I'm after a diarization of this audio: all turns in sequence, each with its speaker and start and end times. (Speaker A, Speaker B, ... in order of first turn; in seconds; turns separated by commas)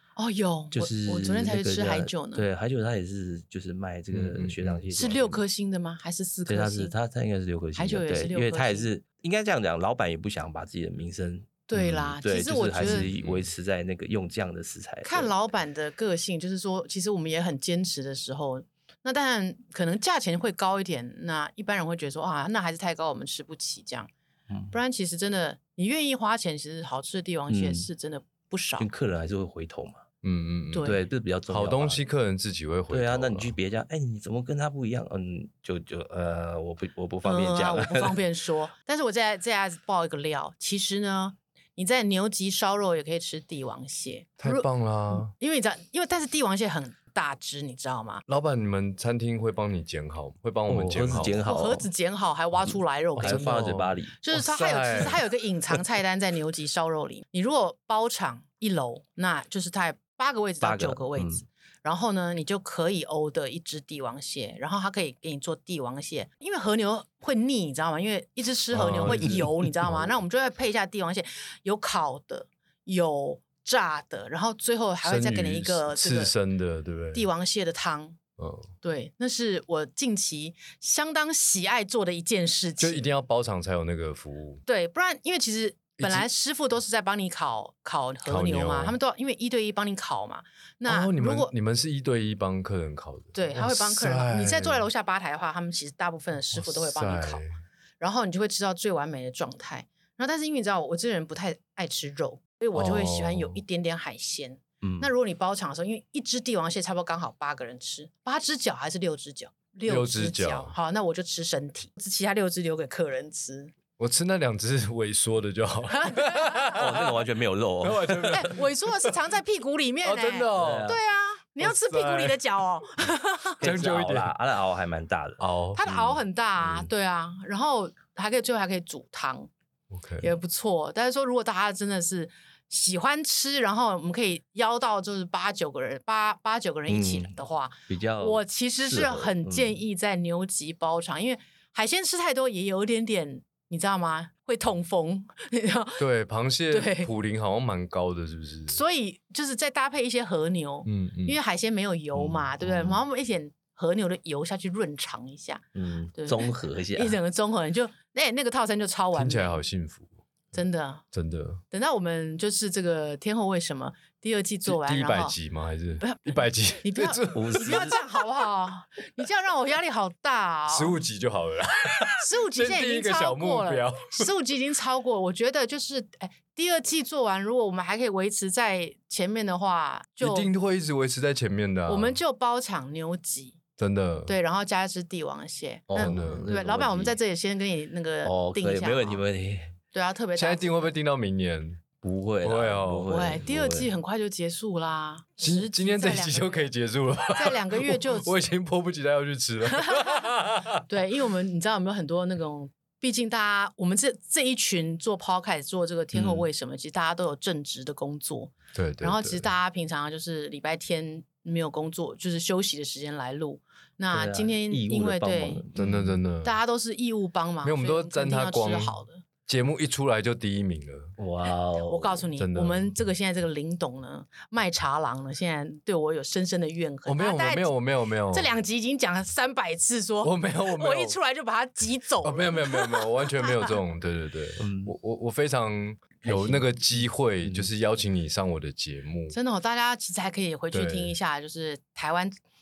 Speaker A: 0.2-2.5, Speaker B: 0.7-5.4, Speaker C: 4.1-4.8, Speaker A: 4.9-6.9, Speaker B: 6.5-15.3, Speaker A: 7.8-8.9, Speaker A: 11.7-13.1, Speaker C: 12.8-13.5, Speaker A: 15.1-24.1, Speaker A: 24.7-28.9, Speaker B: 27.5-27.9, Speaker B: 28.8-30.0, Speaker C: 30.2-30.9, Speaker A: 30.7-31.0, Speaker B: 30.8-32.0, Speaker C: 31.5-33.5, Speaker B: 32.9-38.2, Speaker A: 37.2-48.2, Speaker C: 44.4-45.3, Speaker C: 48.3-51.4, Speaker B: 50.7-51.9, Speaker A: 51.4-53.7, Speaker C: 53.2-55.2, Speaker B: 53.2-54.2, Speaker A: 54.2-76.3, Speaker B: 60.6-61.4, Speaker C: 68.7-70.2, Speaker B: 69.0-69.5, Speaker C: 75.0-77.3, Speaker A: 77.1-78.2, Speaker C: 78.4-78.7, Speaker A: 78.8-83.1, Speaker C: 82.8-84.6, Speaker A: 84.7-91.5, Speaker C: 86.0-86.3, Speaker C: 88.2-89.0, Speaker C: 90.9-94.9, Speaker A: 93.3-97.4, Speaker C: 96.5-97.5, Speaker A: 98.0-113.7, Speaker C: 102.7-103.6, Speaker B: 104.8-105.1, Speaker C: 109.9-110.7, Speaker C: 114.0-117.2, Speaker A: 115.9-116.8, Speaker B: 116.7-118.4, Speaker C: 117.8-119.2, Speaker A: 118.3-123.6, Speaker C: 120.0-121.0, Speaker B: 120.6-121.0, Speaker C: 121.6-122.4, Speaker C: 123.6-124.3, Speaker B: 123.6-125.4, Speaker C: 125.4-126.2, Speaker A: 125.7-129.5, Speaker C: 129.9-130.3, Speaker A: 130.2-146.0, Speaker B: 136.9-137.4, Speaker B: 137.9-139.8, Speaker C: 146.0-148.8, Speaker A: 146.7-147.1, Speaker A: 148.7-159.6, Speaker C: 150.8-151.4, Speaker B: 152.2-152.9, Speaker B: 155.8-157.2, Speaker C: 159.2-160.1, Speaker A: 160.5-161.0, Speaker C: 161.1-161.6, Speaker A: 161.7-165.4, Speaker C: 164.7-168.0, Speaker A: 166.0-171.0, Speaker B: 167.3-168.0, Speaker C: 170.7-174.3, Speaker A: 172.2-180.5, Speaker C: 180.2-182.2, Speaker A: 181.9-183.6, Speaker C: 183.8-184.3, Speaker A: 184.3-189.2, Speaker B: 185.9-187.2, Speaker C: 186.0-186.5, Speaker B: 188.2-189.8, Speaker A: 189.9-190.9, Speaker C: 190.4-191.8, Speaker B: 192.0-193.9, Speaker C: 192.4-193.1, Speaker A: 193.1-196.7, Speaker C: 195.4-200.8, Speaker A: 197.3-198.3, Speaker A: 199.8-200.2, Speaker A: 200.9-215.7, Speaker B: 206.1-206.5, Speaker C: 208.7-209.5, Speaker B: 214.1-216.2, Speaker C: 215.8-216.6, Speaker A: 216.4-219.2, Speaker C: 217.6-221.1, Speaker B: 221.2-222.3, Speaker A: 221.8-227.7, Speaker C: 222.4-222.9, Speaker C: 227.1-228.5, Speaker A: 228.3-233.8, Speaker C: 230.2-231.2, Speaker C: 232.2-239.4, Speaker B: 234.6-234.9, Speaker B: 236.2-237.7, Speaker A: 239.3-242.3, Speaker C: 240.7-241.1